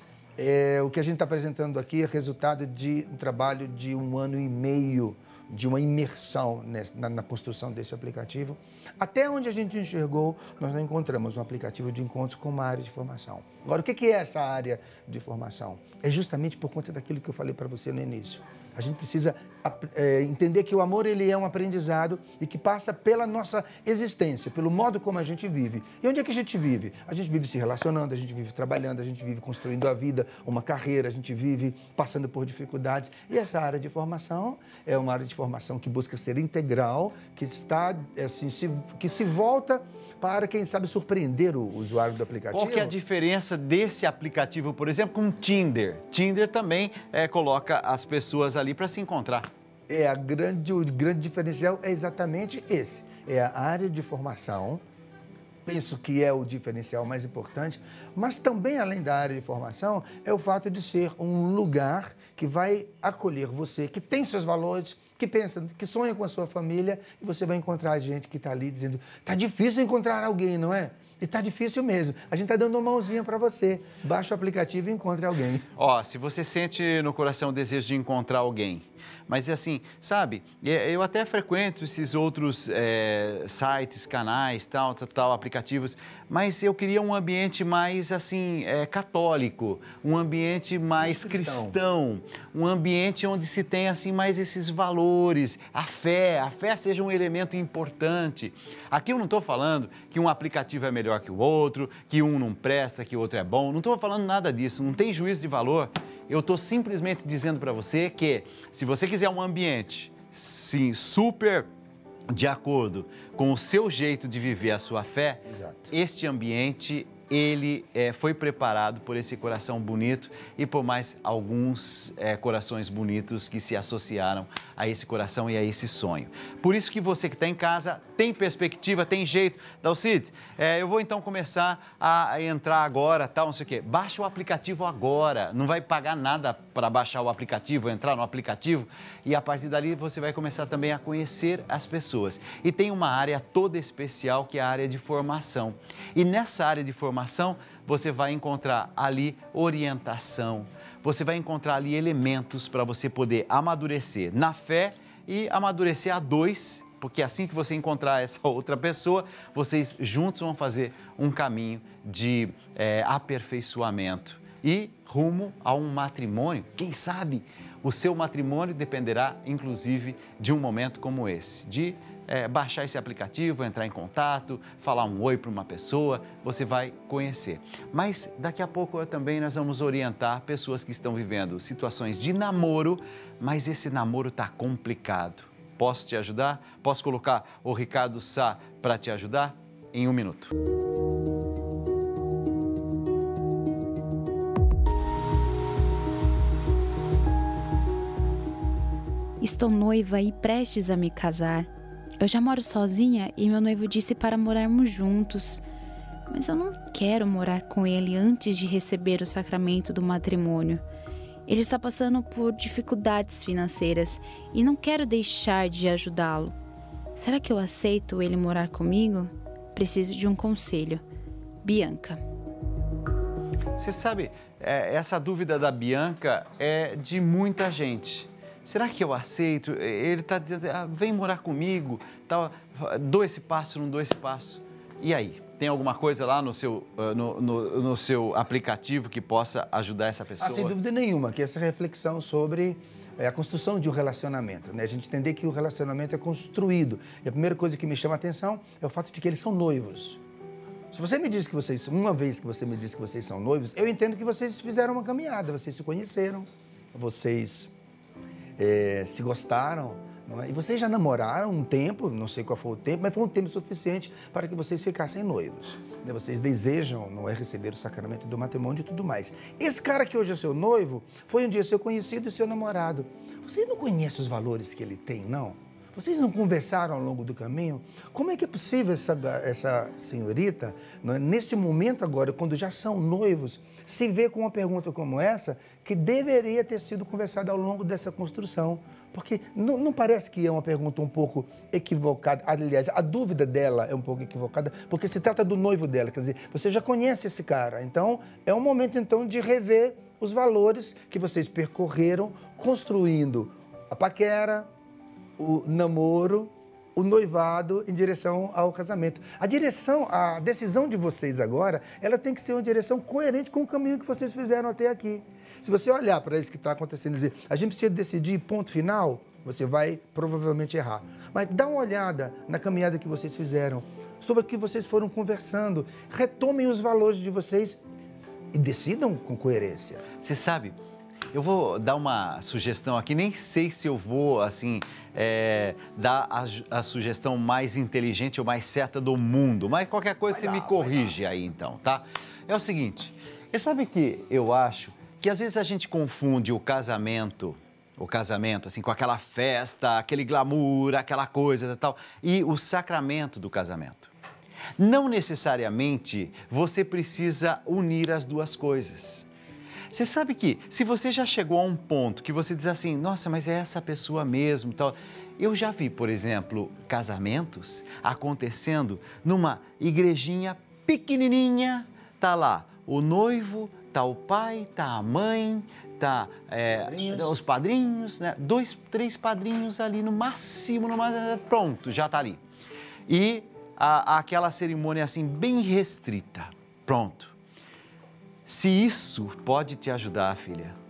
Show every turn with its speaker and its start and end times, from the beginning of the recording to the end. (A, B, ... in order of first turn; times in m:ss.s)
0:00.4-0:42.9 A
0:42.5-0:49.5 B
0:49.9-0:54.8 A
0:55.6-1:15.7 A
1:15.8-1:51.7 B
1:31.0-1:31.8 A
1:52.3-3:10.5 B
1:55.5-1:55.9 A
3:19.4-3:21.7 C
3:22.2-3:25.6 C
3:26.3-3:30.8 C
3:31.5-3:36.5 C
3:37.2-3:41.0 C
3:41.6-3:42.2 C
3:43.8-4:00.8 B
4:00.4-4:10.2 A
4:10.9-4:17.7 A
4:18.6-5:04.7 A
5:05.4-5:27.8 A
5:28.5-5:30.0 A
5:30.2-5:30.8 B
5:31.3-5:54.1 B
5:40.3-5:41.1 A
5:54.8-5:59.3 B
5:59.9-6:22.4 B
6:16.9-6:17.4 A
6:23.1-6:27.3 B
6:28.4-6:30.8 B